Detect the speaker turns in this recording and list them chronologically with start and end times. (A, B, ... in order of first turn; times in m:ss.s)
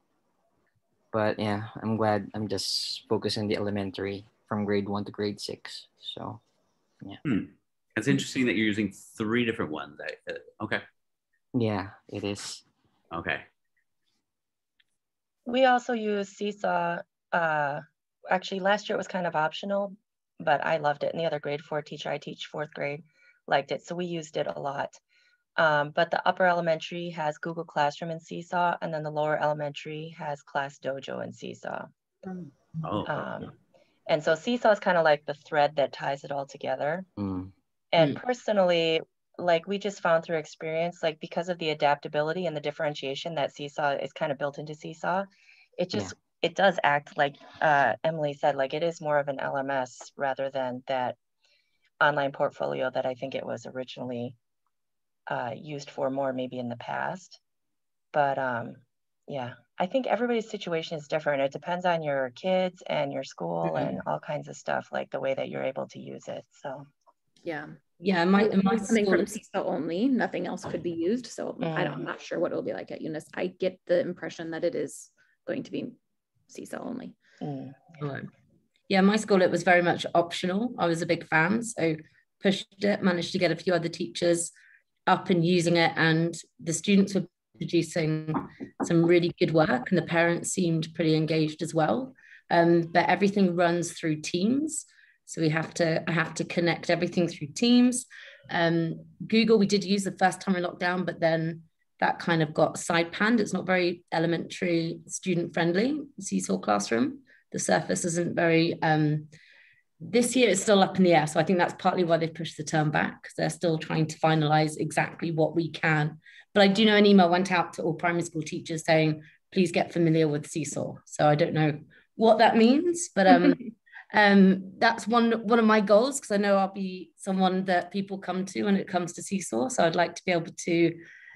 0:01.1-0:06.4 A
0:07.2-0:10.8 B
0:11.5-0:12.6 A
0:13.1-0:13.4 B
0:15.4-0:25.0 C
0:25.6-0:31.9 C
0:32.8-0:33.5 B
0:33.0-0:33.5 C
0:34.1-0:37.1 C
0:37.2-0:37.5 A
0:37.9-0:51.2 C
0:52.0-0:54.4 C
0:55.3-0:57.4 C
0:58.1-1:06.8 C
1:07.4-1:07.8 D
1:08.0-1:09.4 E
1:08.3-1:16.0 D
1:11.6-1:12.0 C
1:16.5-1:17.2 D
1:17.4-1:18.0 C
1:18.0-1:18.3 E
1:18.9-1:24.5 E
1:25.1-1:49.3 E
1:50.0-2:11.0 E